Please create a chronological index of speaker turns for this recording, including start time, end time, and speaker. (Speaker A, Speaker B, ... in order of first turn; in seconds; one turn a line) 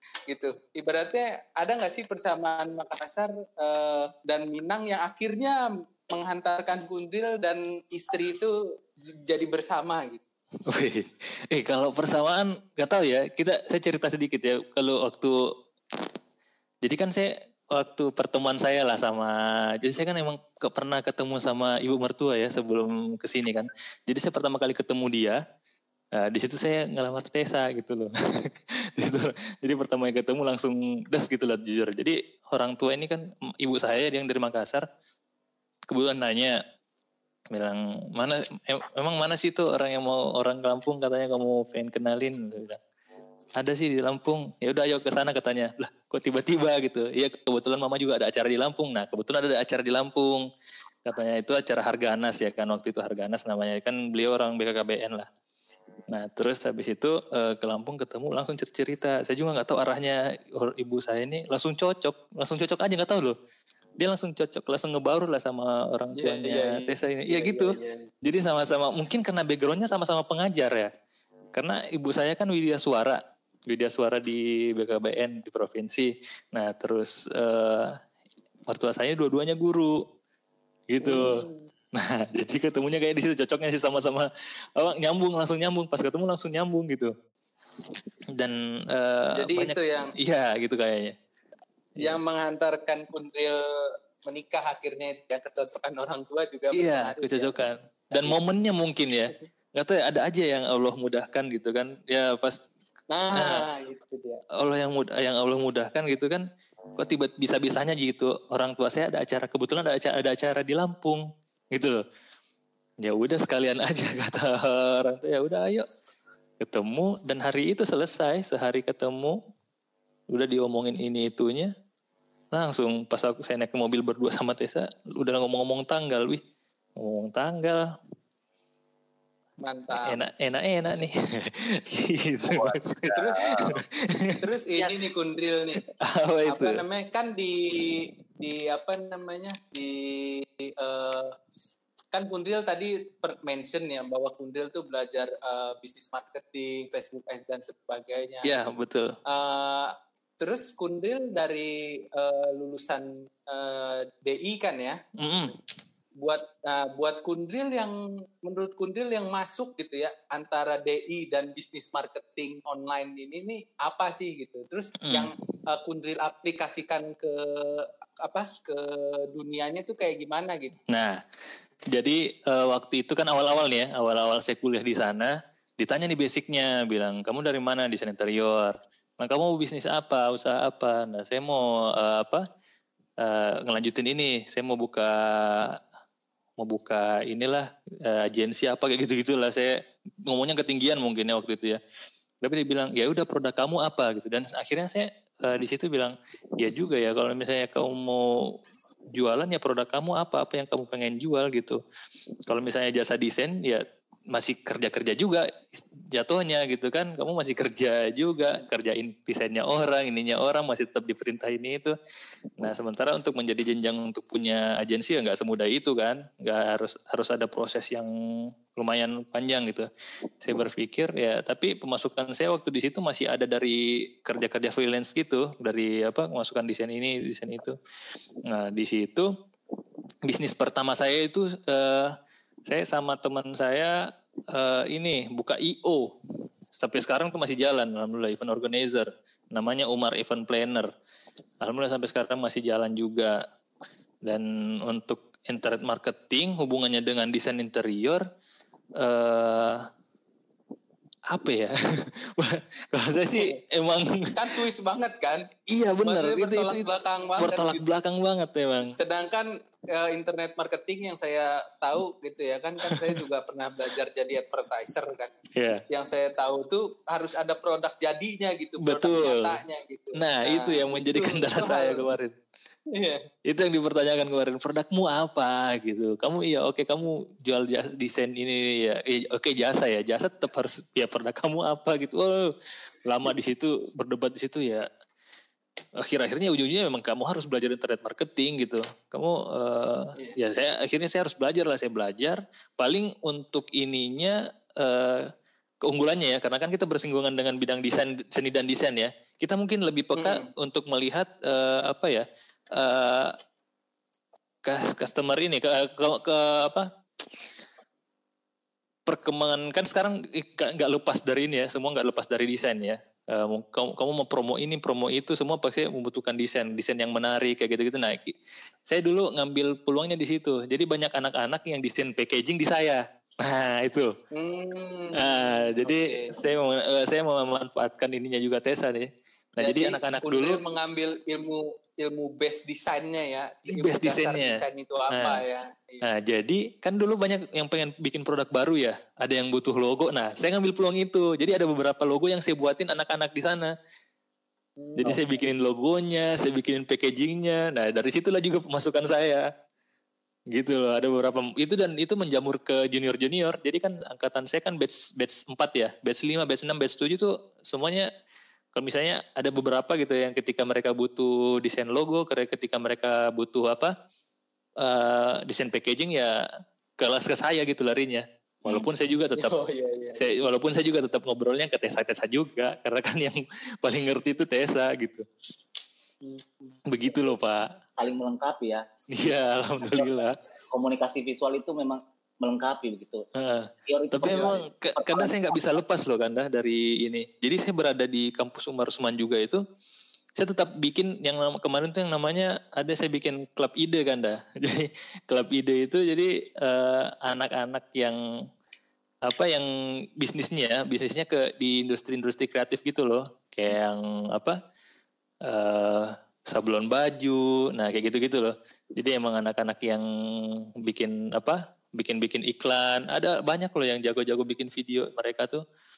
Speaker A: 0.3-10.2
Speaker B: 10.7-15.3
Speaker B: 16.8-25.4
Speaker B: 26.2-34.9
Speaker B: 35.9-36.6
Speaker B: 37.5-42.8
Speaker B: 43.6-50.5
Speaker B: 51.1-55.3
Speaker B: 56.1-63.4
Speaker B: 64.0-70.9
Speaker A: 66.2-68.1
Speaker B: 71.5-78.0
Speaker B: 78.7-80.0
Speaker B: 80.9-81.4
Speaker A: 81.0-81.7
Speaker B: 82.0-87.1
Speaker B: 88.3-91.2
Speaker A: 89.3-90.1
Speaker A: 92.0-93.6
Speaker A: 94.2-97.6
Speaker B: 96.7-102.6
Speaker A: 103.1-104.4
Speaker B: 103.3-103.7
Speaker B: 104.6-106.4
Speaker B: 107.0-112.0
Speaker B: 113.0-115.8
Speaker B: 116.6-119.4
Speaker B: 120.3-121.7
Speaker B: 122.5-126.4
Speaker B: 127.0-127.8
Speaker A: 129.6-130.2
Speaker B: 130.0-134.4
Speaker C: 132.5-133.7
Speaker A: 133.2-133.8
Speaker A: 134.4-135.8
Speaker B: 136.0-136.8
Speaker A: 136.5-141.4
Speaker A: 142.1-148.6
Speaker B: 148.4-149.1
Speaker A: 149.3-155.0
Speaker B: 155.2-155.5
Speaker A: 156.2-170.8
Speaker B: 165.1-165.3
Speaker B: 170.9-171.2
Speaker B: 171.9-182.4
Speaker B: 183.2-185.8
Speaker B: 186.6-189.8
Speaker B: 190.3-191.8
Speaker B: 192.4-198.3
Speaker B: 199.1-201.8
Speaker B: 202.5-211.9
Speaker B: 212.6-218.1
Speaker B: 218.8-219.9
Speaker B: 220.4-227.8
Speaker B: 228.5-229.3
Speaker B: 230.3-232.1
Speaker B: 232.7-233.9
Speaker B: 234.5-236.1
Speaker B: 236.8-240.9
Speaker B: 241.6-243.4
Speaker B: 244.3-248.2
Speaker B: 249.0-249.9
Speaker B: 251.3-254.3
Speaker A: 254.3-255.5
Speaker B: 255.7-256.9
Speaker A: 256.0-257.8
Speaker B: 257.4-258.9
Speaker A: 258.9-265.3
Speaker B: 265.6-265.8
Speaker A: 265.9-272.1
Speaker B: 268.8-269.6
Speaker B: 270.2-272.3
Speaker A: 272.9-273.3
Speaker B: 273.5-282.5
Speaker B: 283.1-284.9
Speaker B: 286.0-295.3
Speaker B: 295.9-302.2
Speaker A: 300.2-300.5
Speaker B: 302.8-303.3
Speaker B: 304.6-306.9
Speaker B: 309.1-318.4
Speaker B: 318.9-324.1
Speaker A: 324.3-326.4
Speaker B: 325.2-330.6
Speaker A: 329.6-336.1
Speaker B: 333.7-334.6
Speaker B: 335.1-335.4
Speaker B: 336.0-343.7
Speaker A: 344.8-345.4
Speaker B: 345.0-349.5
Speaker B: 350.5-358.1
Speaker B: 358.8-363.9
Speaker B: 364.8-366.4
Speaker B: 367.0-369.6
Speaker A: 368.7-370.4
Speaker B: 370.1-375.2
Speaker A: 376.2-376.8
Speaker B: 376.9-377.7
Speaker C: 378.0-378.8
Speaker B: 379.1-380.4
Speaker C: 379.8-380.2
Speaker C: 380.7-383.2
Speaker B: 383.4-389.6
Speaker C: 383.9-385.6
Speaker B: 390.4-398.2
Speaker B: 399.2-399.7
Speaker B: 400.2-404.6
Speaker B: 405.5-410.0
Speaker B: 410.8-415.6